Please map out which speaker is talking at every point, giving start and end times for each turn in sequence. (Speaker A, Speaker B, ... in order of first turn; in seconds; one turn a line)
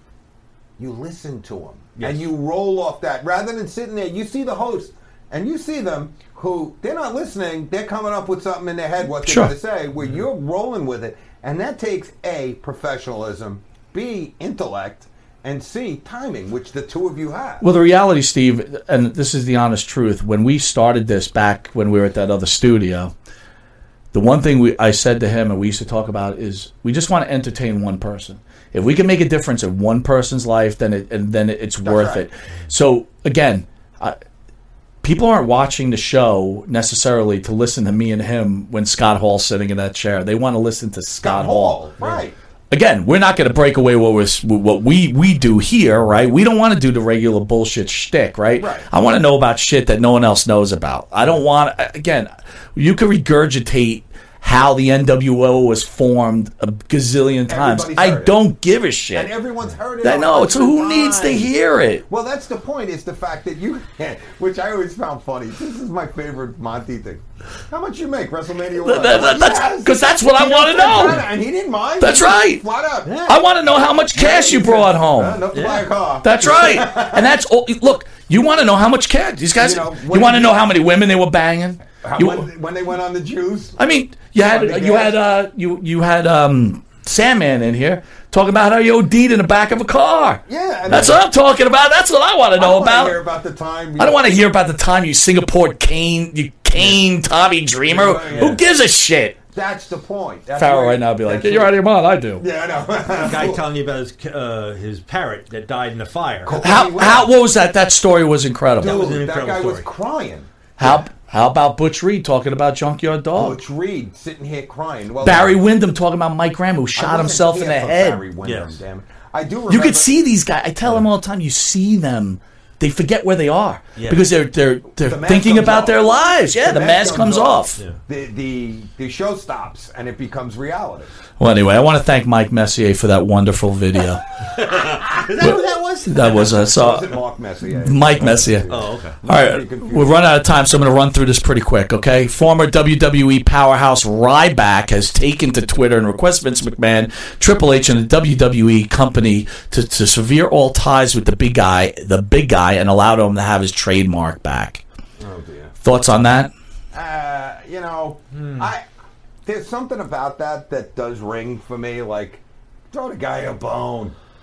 Speaker A: 0.8-17.6
Speaker B: 2.0-2.2
Speaker C: 9.2-9.5
Speaker C: 17.6-23.1
Speaker C: 24.1-34.2
Speaker A: 31.8-32.2
Speaker C: 35.0-41.9
Speaker A: 41.2-42.3
Speaker C: 42.7-59.3
Speaker A: 48.6-48.9
Speaker A: 57.5-58.4
Speaker A: 59.1-61.5
Speaker C: 60.0-62.0
Speaker A: 62.1-73.3
Speaker C: 68.8-71.2
Speaker C: 72.0-72.6
Speaker B: 73.0-73.4
Speaker C: 73.3-75.4
Speaker A: 74.1-77.3
Speaker B: 75.5-75.8
Speaker C: 76.2-82.5
Speaker A: 79.6-80.7
Speaker A: 82.0-83.8
Speaker C: 83.8-93.2
Speaker A: 84.4-85.2
Speaker A: 90.5-91.2
Speaker A: 92.5-94.2
Speaker C: 94.0-99.4
Speaker A: 97.9-98.6
Speaker A: 99.5-101.8
Speaker C: 100.5-102.4
Speaker A: 102.4-103.6
Speaker B: 103.1-106.6
Speaker A: 106.4-107.3
Speaker C: 106.6-109.0
Speaker A: 108.8-111.0
Speaker B: 108.8-109.9
Speaker C: 110.8-113.6
Speaker A: 113.3-115.6
Speaker C: 115.2-118.3
Speaker A: 116.9-120.1
Speaker B: 118.4-118.8
Speaker C: 119.7-127.8
Speaker B: 124.0-124.2
Speaker A: 125.0-126.0
Speaker A: 126.6-131.1
Speaker C: 131.4-134.3
Speaker B: 134.5-136.6
Speaker C: 135.4-137.1
Speaker A: 136.6-140.2
Speaker C: 137.8-138.7
Speaker B: 138.7-139.2
Speaker C: 139.2-154.8
Speaker A: 155.2-155.7
Speaker C: 155.8-156.5
Speaker A: 156.9-158.8
Speaker B: 158.3-158.7
Speaker A: 159.4-164.2